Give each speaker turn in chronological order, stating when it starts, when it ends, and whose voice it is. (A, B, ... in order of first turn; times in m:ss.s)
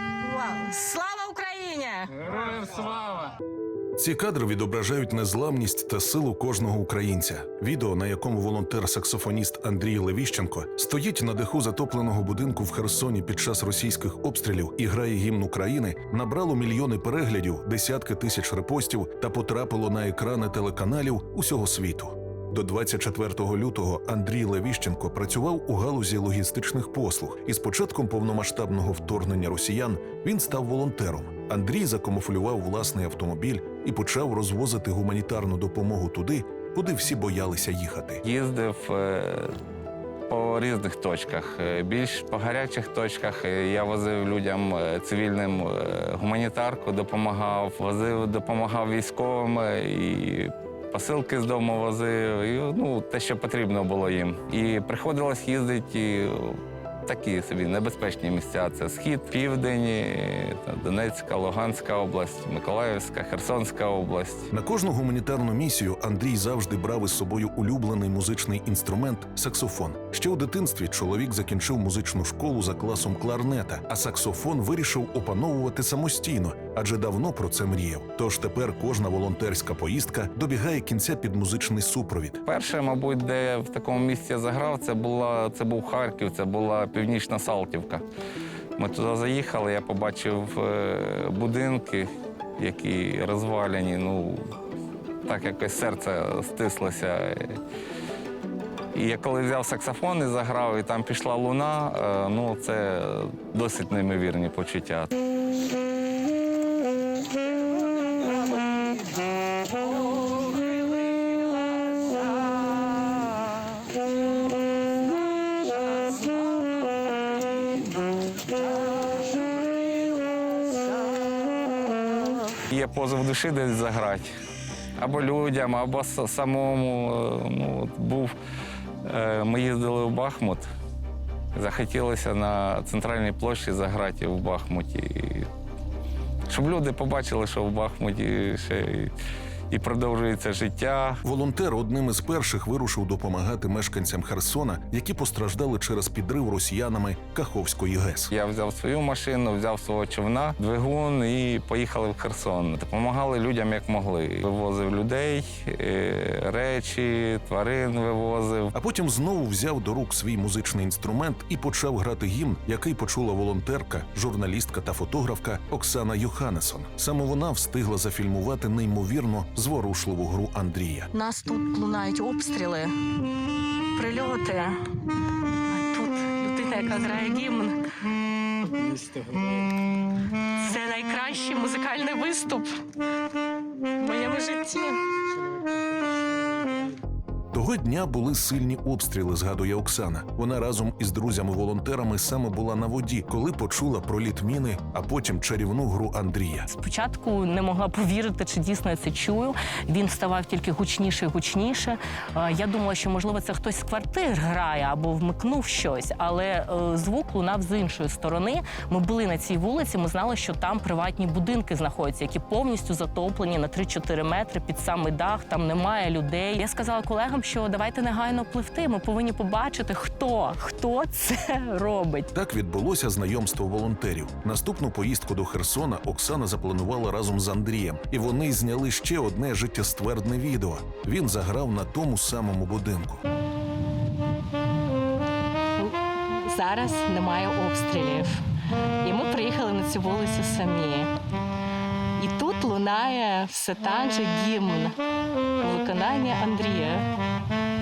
0:00.2-0:02.5 A
0:04.0-0:38.2 B
0:38.2-0:39.6 C
0:40.3-1:04.5 C
1:04.5-1:22.4 B
1:22.5-1:28.0 C
1:28.8-1:34.4 C
1:35.2-1:37.6 C
1:38.9-1:45.1 C
2:02.7-2:04.3 C
2:05.0-2:08.4 C
2:09.0-2:10.6 C
2:11.6-2:15.5 C
2:16.5-2:19.1 C
2:19.7-2:21.2 C
2:21.2-2:28.3 B
2:28.3-2:38.7 C
2:38.7-2:51.1 B
2:51.1-2:52.9 A
2:53.9-2:54.8 A
2:55.7-2:57.8 A
3:00.6-3:02.8 A
3:04.0-3:05.0 A
3:07.5-3:16.7 B
3:16.7-3:42.3 A
3:42.3-3:53.2 B
3:55.8-3:58.4 A
3:59.0-4:01.1 A
4:02.2-4:05.0 A
4:05.6-4:07.1 A